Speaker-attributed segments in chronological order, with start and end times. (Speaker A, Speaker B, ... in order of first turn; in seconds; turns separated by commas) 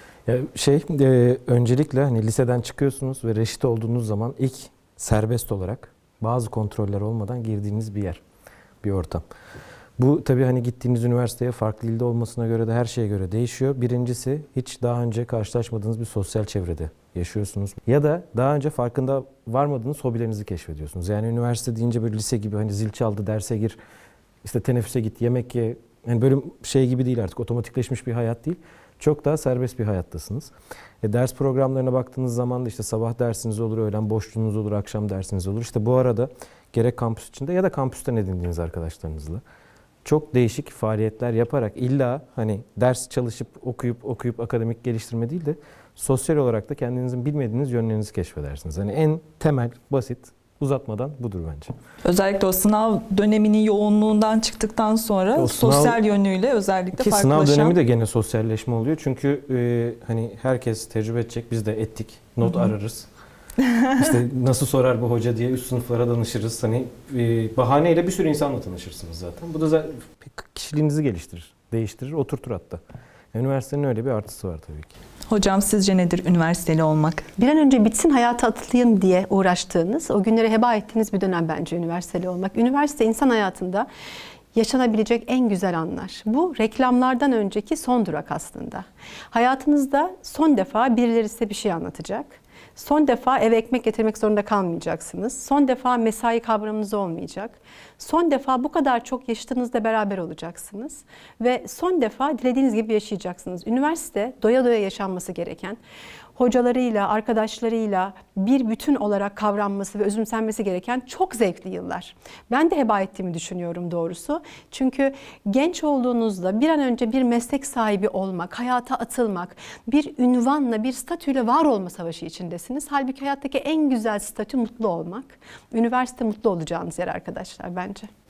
Speaker A: 0.2-8.2, Speaker A: 8.8-9.2, Speaker A: 10.0-23.8, Speaker A: 24.4-39.4, Speaker A: 40.0-51.7, Speaker B: 52.0-57.8, Speaker A: 55.4-56.0, Speaker A: 57.0-63.1, Speaker B: 62.4-62.7, Speaker B: 63.8-64.1, Speaker A: 64.0-72.8, Speaker A: 73.3-74.9, Speaker B: 75.3-77.3, Speaker C: 77.4-83.9, Speaker C: 84.5-105.8, Speaker C: 106.3-128.1